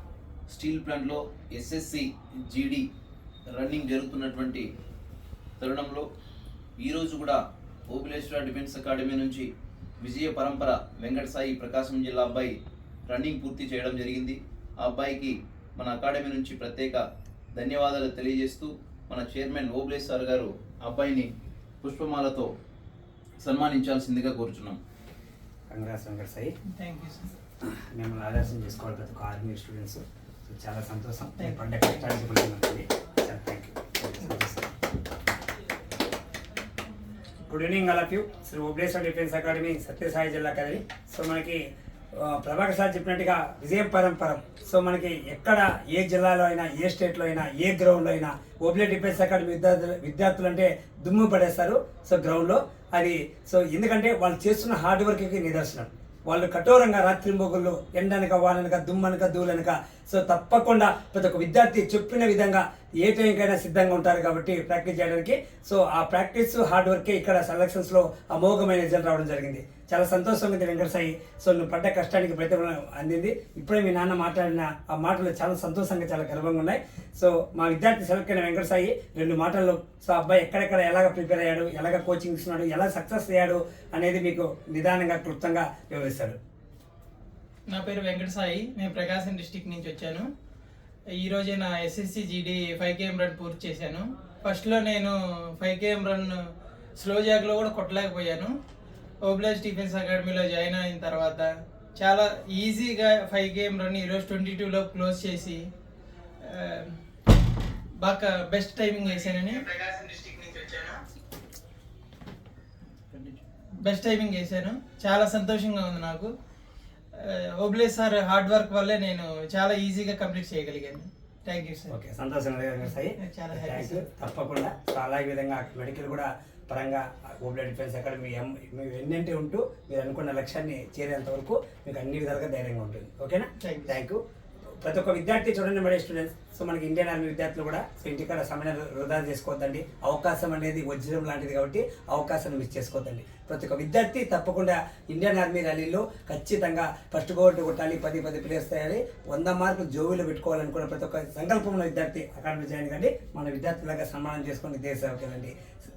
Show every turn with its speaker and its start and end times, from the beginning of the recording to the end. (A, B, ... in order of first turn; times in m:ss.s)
0:00.5-0:02.8 A
0:03.5-0:04.7 A
0:05.6-0:06.0 A
0:06.8-0:09.5 A
0:10.0-0:12.5 A
0:13.1-0:17.0 A
0:17.6-0:21.3 A
0:21.8-0:22.5 A
0:23.4-0:24.8 A
0:25.7-0:26.5 B
0:26.7-0:27.3 C
0:27.6-0:34.8 B
0:31.4-0:32.1 C
0:37.4-0:41.6 B
0:42.1-1:26.4 B
1:27.7-1:30.2 C
1:31.2-1:36.4 C
1:37.0-1:38.5 C
1:39.2-1:45.6 C
1:46.4-1:47.0 C
1:48.0-1:51.0 C
1:53.1-1:53.4 A
1:53.8-1:56.3 C
1:57.1-2:01.9 C
2:01.9-2:14.2 B
2:03.2-2:04.1 C
2:13.6-2:14.0 C
2:14.8-2:35.5 B